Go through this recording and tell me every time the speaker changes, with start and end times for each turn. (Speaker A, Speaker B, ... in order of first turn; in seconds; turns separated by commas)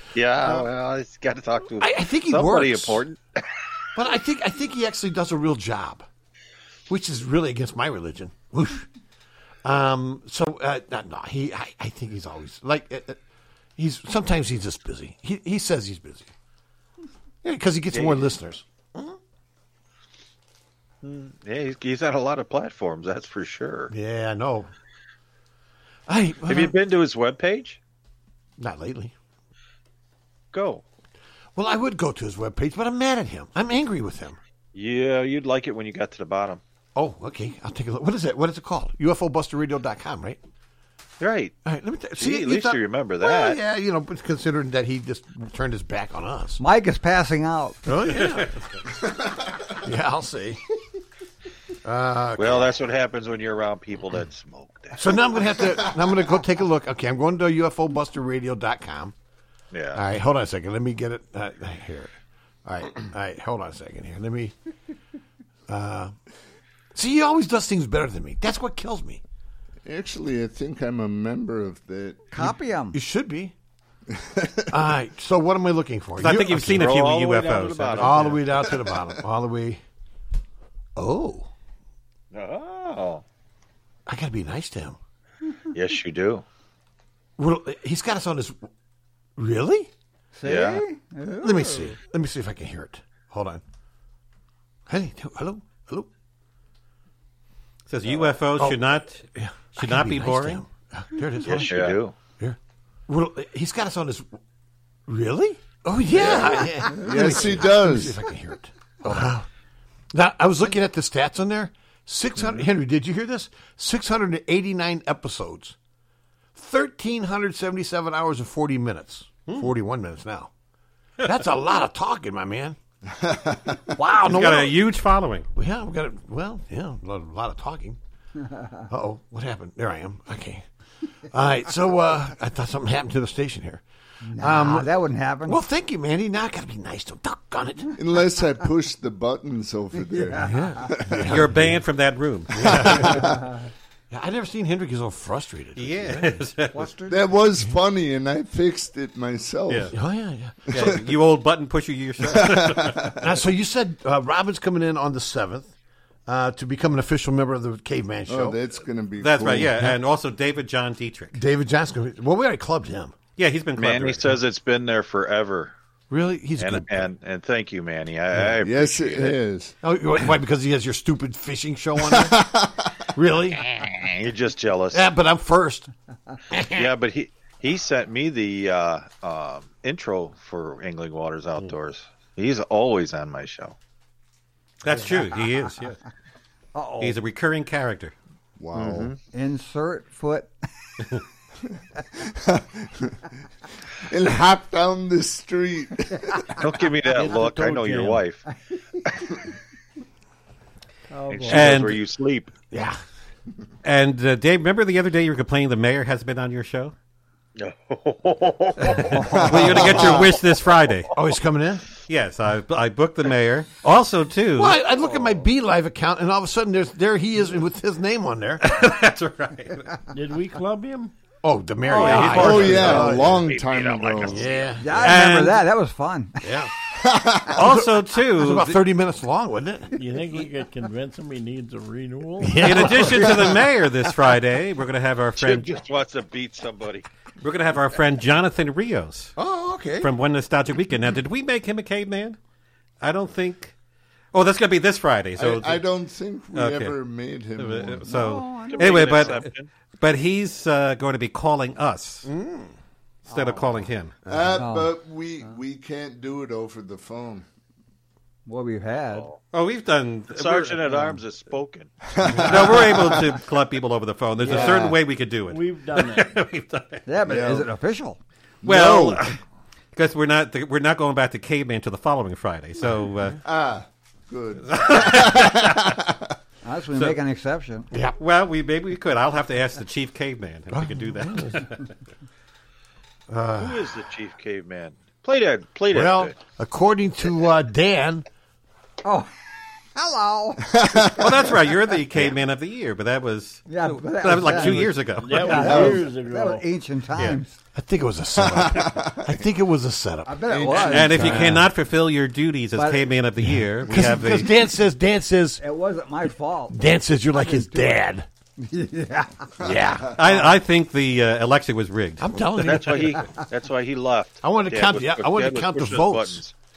Speaker A: 0.1-3.2, Speaker B: 1.8-3.0, Speaker B: 4.0-6.1, Speaker B: 6.9-8.9, Speaker B: 9.6-13.2, Speaker B: 13.8-16.3, Speaker B: 17.4-19.2, Speaker A: 17.9-18.3, Speaker A: 21.0-23.9, Speaker B: 23.9-24.7, Speaker B: 26.1-26.7, Speaker A: 26.5-27.8, Speaker B: 28.6-29.1, Speaker A: 30.5-30.8, Speaker B: 31.6-34.4, Speaker A: 34.7-36.6, Speaker B: 37.0-40.4, Speaker A: 41.2-41.5, Speaker B: 41.6-46.6, Speaker A: 42.2-43.6, Speaker C: 46.6-47.8, Speaker B: 47.9-48.5, Speaker D: 49.0-49.5, Speaker B: 49.8-50.6, Speaker B: 51.9-52.8, Speaker A: 52.4-55.4, Speaker B: 55.0-59.1, Speaker A: 59.7-60.0, Speaker B: 59.9-62.1, Speaker B: 62.6-64.5, Speaker B: 65.7-66.1, Speaker B: 67.0-69.2, Speaker D: 69.8-72.2, Speaker C: 72.3-73.0, Speaker B: 72.4-73.5, Speaker D: 74.2-74.6, Speaker B: 74.7-77.0, Speaker E: 76.2-78.4, Speaker A: 76.7-78.5, Speaker B: 78.0-79.8, Speaker B: 81.0-81.5, Speaker A: 82.3-83.2, Speaker B: 84.1-85.0, Speaker A: 85.7-86.4, Speaker B: 87.4-88.7, Speaker B: 89.4-89.9, Speaker C: 90.3-92.0, Speaker A: 90.4-90.8, Speaker B: 91.4-93.6, Speaker B: 94.9-96.1, Speaker E: 97.9-100.6, Speaker B: 98.4-104.4, Speaker A: 101.4-102.2, Speaker B: 105.1-109.5, Speaker D: 106.2-108.2, Speaker B: 110.1-115.8, Speaker B: 116.5-120.5, Speaker B: 121.2-122.8, Speaker D: 123.2-123.8, Speaker B: 124.0-124.8, Speaker E: 124.2-125.5, Speaker B: 125.5-128.0, Speaker B: 128.9-130.7, Speaker B: 131.3-133.8, Speaker C: 134.2-135.6, Speaker B: 134.4-134.9, Speaker B: 135.5-137.9, Speaker D: 137.9-141.3, Speaker C: 140.1-140.5, Speaker B: 140.4-141.8, Speaker E: 141.3-143.1, Speaker B: 142.5-143.3, Speaker D: 142.6-143.2, Speaker B: 144.1-146.4, Speaker E: 145.8-146.8, Speaker C: 146.7-147.2, Speaker D: 147.1-149.9, Speaker B: 149.9-150.7, Speaker E: 150.7-153.2, Speaker D: 152.2-153.2, Speaker B: 153.2-155.7, Speaker B: 156.3-158.6, Speaker D: 158.3-159.8, Speaker E: 159.2-161.4, Speaker B: 161.3-163.2, Speaker E: 163.4-164.4, Speaker A: 163.8-165.8, Speaker B: 166.1-167.1, Speaker A: 166.6-169.4, Speaker D: 168.5-169.7, Speaker B: 169.8-172.4, Speaker D: 172.2-172.9, Speaker B: 173.2-173.7, Speaker A: 173.9-175.1, Speaker B: 174.9-175.9, Speaker B: 176.5-176.9, Speaker A: 176.8-183.8, Speaker E: 184.8-186.0, Speaker C: 186.8-187.2, Speaker E: 187.0-188.1, Speaker D: 188.6-189.1, Speaker A: 188.8-189.2, Speaker C: 189.3-190.5, Speaker D: 192.2-193.1, Speaker D: 194.1-196.6, Speaker A: 196.6-198.4, Speaker C: 197.3-197.9, Speaker C: 201.1-201.8, Speaker A: 201.3-202.5, Speaker E: 201.5-202.0, Speaker B: 202.7-203.0, Speaker E: 203.8-206.9, Speaker A: 207.6-209.0, Speaker C: 208.9-209.6, Speaker E: 209.0-211.1, Speaker D: 209.6-210.2, Speaker B: 211.1-211.8, Speaker E: 212.1-214.8, Speaker B: 214.6-218.7, Speaker E: 218.6-220.0, Speaker F: 220.1-221.1, Speaker B: 221.4-223.5, Speaker E: 221.9-223.2, Speaker D: 222.1-224.5, Speaker A: 223.3-224.8, Speaker B: 224.2-225.2, Speaker C: 224.8-226.4, Speaker E: 225.0-225.6, Speaker B: 226.4-226.7, Speaker D: 227.0-227.6, Speaker E: 227.6-228.8, Speaker B: 227.6-230.0, Speaker F: 229.9-233.2, Speaker B: 232.4-233.6, Speaker E: 232.6-235.8, Speaker A: 235.4-237.1, Speaker E: 237.4-239.3, Speaker B: 239.4-240.1, Speaker E: 240.0-242.4, Speaker E: 243.0-243.7, Speaker E: 244.3-245.8, Speaker D: 245.4-248.1, Speaker E: 246.5-247.0, Speaker E: 247.6-249.5, Speaker C: 248.1-249.1, Speaker A: 248.7-249.7, Speaker E: 250.0-252.3, Speaker B: 252.3-252.7, Speaker E: 253.3-254.2, Speaker C: 253.3-253.7, Speaker D: 254.3-257.4, Speaker C: 254.5-254.9, Speaker C: 258.5-259.3, Speaker A: 259.1-259.4, Speaker E: 259.5-261.2, Speaker A: 260.3-261.9, Speaker D: 262.1-263.2, Speaker E: 262.4-267.1, Speaker D: 264.4-265.0, Speaker F: 265.5-266.4, Speaker C: 267.1-268.2, Speaker D: 267.3-267.7, Speaker D: 268.6-269.2, Speaker E: 268.6-269.4, Speaker E: 269.9-273.4, Speaker D: 273.4-276.2, Speaker E: 274.7-275.9, Speaker C: 276.6-277.9, Speaker B: 277.9-278.2, Speaker E: 278.2-281.9, Speaker B: 280.7-281.7, Speaker B: 283.3-283.9, Speaker A: 283.6-286.4, Speaker B: 285.9-288.3, Speaker C: 289.9-290.9, Speaker D: 290.7-291.3, Speaker E: 291.2-295.6, Speaker C: 293.7-297.6, Speaker F: 295.2-296.6, Speaker D: 295.5-296.0, Speaker B: 297.8-301.7, Speaker D: 298.4-299.4, Speaker C: 300.3-301.6, Speaker D: 300.5-301.5, Speaker E: 300.9-304.5, Speaker C: 302.8-303.1, Speaker B: 303.4-305.6, Speaker C: 305.6-306.8, Speaker B: 306.7-308.3, Speaker C: 307.3-308.0, Speaker C: 308.6-309.5, Speaker B: 309.6-310.1, Speaker D: 309.6-309.9, Speaker E: 310.2-312.5, Speaker B: 312.2-313.2, Speaker A: 312.6-316.5, Speaker B: 314.4-316.4